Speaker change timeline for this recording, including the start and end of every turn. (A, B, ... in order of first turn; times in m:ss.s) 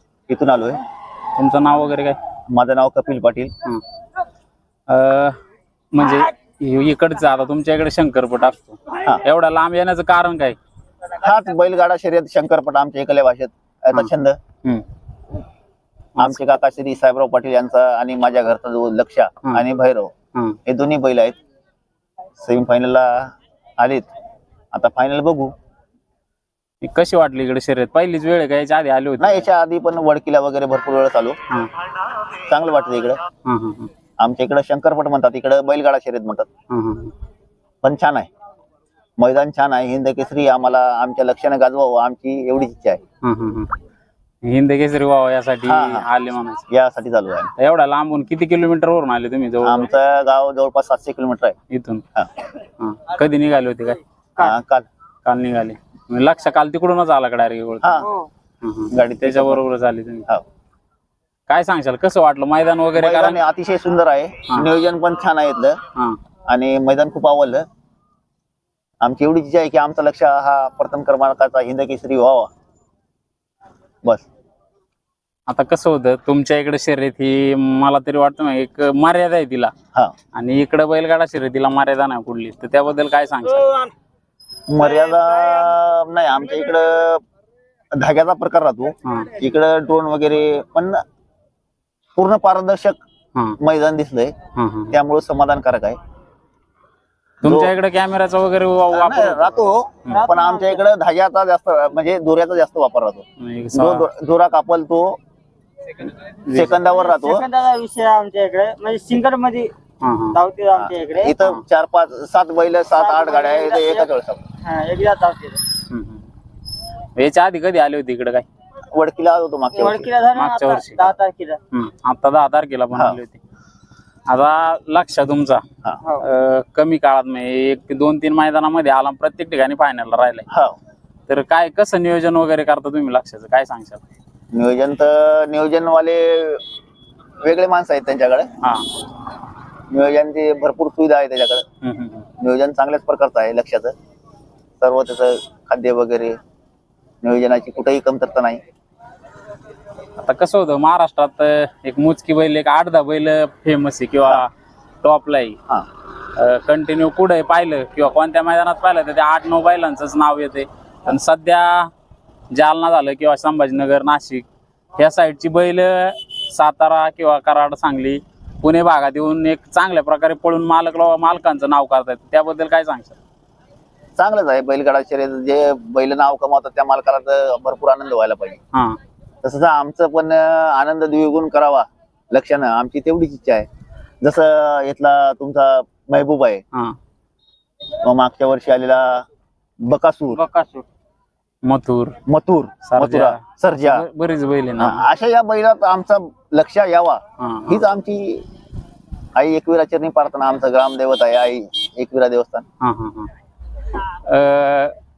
0:00.3-0:00.8 A
0:01.4-0:02.2 B
0:02.5-0:03.5 A
0:04.9-0:05.4 B
0:05.9-0:10.6 B
0:11.1-0:14.4 A
0:16.2-0:20.1 A
0:20.7-0:21.3 A
0:22.4-0:24.1 A
0:24.7-0:25.5 A
0:26.8-0:29.5 B
0:29.2-0:31.4 A
0:32.4-0:33.2 A
0:33.5-0:33.9 B
0:34.2-0:36.5 A
0:36.7-0:37.1 B
0:37.8-0:38.3 A
0:39.2-0:43.0 A
0:43.2-0:43.7 B
0:44.4-0:46.6 B
0:45.6-0:46.1 A
0:46.7-0:47.5 A
0:47.6-0:49.9 B
0:49.6-0:51.6 A
0:51.7-0:52.0 B
0:52.8-0:54.0 B
0:54.4-0:54.9 A
0:55.2-0:58.0 B
0:57.8-0:58.1 A
0:58.0-0:58.3 C
0:58.6-1:00.3 B
0:58.9-0:59.6 A
1:01.5-1:03.4 B
1:03.0-1:05.8 A
1:06.5-1:07.6 A
1:09.0-1:12.5 A
1:15.5-1:19.7 B
1:20.4-1:23.9 B
1:24.7-1:27.2 A
1:28.0-1:31.0 A
1:29.0-1:29.3 B
1:32.2-1:33.0 A
1:33.6-1:34.3 A
1:34.6-1:34.9 B
1:34.9-1:36.0 A
1:37.4-1:37.7 A
1:37.4-1:40.2 B
1:38.9-1:43.2 A
1:40.1-1:40.8 C
1:43.4-1:44.1 B
1:43.7-1:45.2 A
1:46.4-1:46.8 B
1:46.5-1:47.4 A
1:46.9-1:49.7 C
1:50.0-1:50.4 B
1:50.3-1:51.3 C
1:50.8-1:54.4 A
1:52.9-1:54.1 C
1:54.6-1:55.6 C
1:55.9-1:56.2 B
1:57.2-1:58.5 B
1:58.9-2:00.1 A
1:59.8-2:01.6 C
2:00.3-2:01.2 B
2:01.7-2:03.4 B
2:02.9-2:03.2 A
2:04.3-2:05.6 B
2:06.2-2:10.4 B
2:10.5-2:10.8 A
2:11.3-2:14.0 B
2:14.5-2:16.6 A
2:17.4-2:18.5 A
2:19.9-2:21.6 A
2:21.8-2:22.2 B
2:22.4-2:23.9 A
2:24.8-2:26.4 A
2:27.2-2:28.6 A
2:30.2-2:34.5 B
2:35.0-2:35.6 B
2:36.4-2:41.9 B
2:42.5-2:44.5 B
2:45.0-2:53.2 B
2:54.2-2:58.6 A
2:59.4-3:03.7 A
3:04.2-3:06.6 A
3:08.0-3:09.3 A
3:09.8-3:10.4 A
3:10.3-3:10.9 C
3:11.6-3:12.2 B
3:12.3-3:14.1 A
3:12.9-3:15.0 B
3:14.8-3:18.4 A
3:17.4-3:17.8 B
3:19.4-3:22.6 A
3:22.8-3:23.3 B
3:24.1-3:25.0 B